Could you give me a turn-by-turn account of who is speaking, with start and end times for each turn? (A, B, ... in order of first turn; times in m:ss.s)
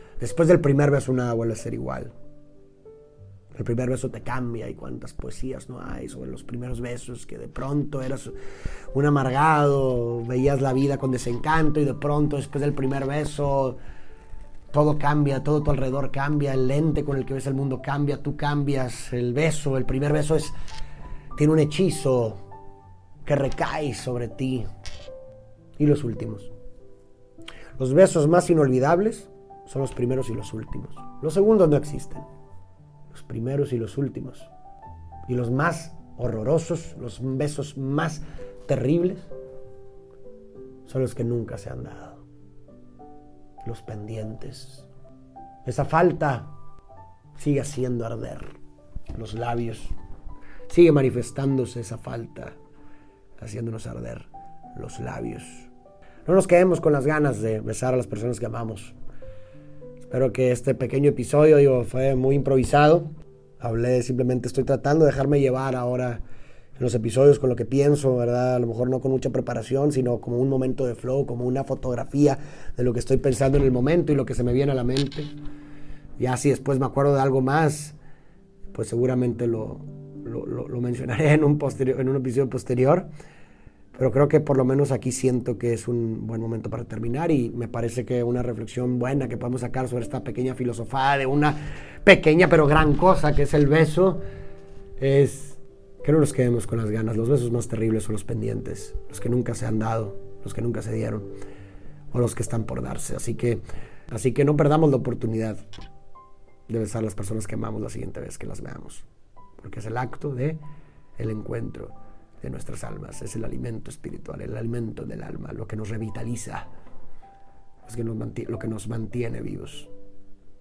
0:00.2-0:02.1 A
0:03.5-0:08.3 A
0:08.9-0:13.8 A
0:14.7-0:20.5 A
0:21.4-0:22.4 A
0:23.2-0:24.6 A
0:25.8-0:26.5 A
0:27.8-0:32.2 A
0:33.1-0:34.5 A
0:35.2-0:39.3 A
0:40.8-0:42.2 A
0:43.6-0:44.9 A
0:45.6-0:46.5 A
0:47.4-0:48.5 A
0:49.2-0:49.9 A
0:50.7-0:52.6 A
0:53.4-0:55.7 A
0:56.2-0:58.9 A
1:00.0-1:03.1 A
1:03.6-1:06.2 A
1:06.8-1:15.3 A
1:16.2-1:18.0 A
1:18.7-1:23.1 A
1:23.9-1:34.2 A
1:35.0-1:41.3 A
1:42.1-1:45.6 A
1:46.7-1:49.0 A
1:49.6-1:50.6 A
1:51.2-1:56.7 A
1:57.8-1:59.9 A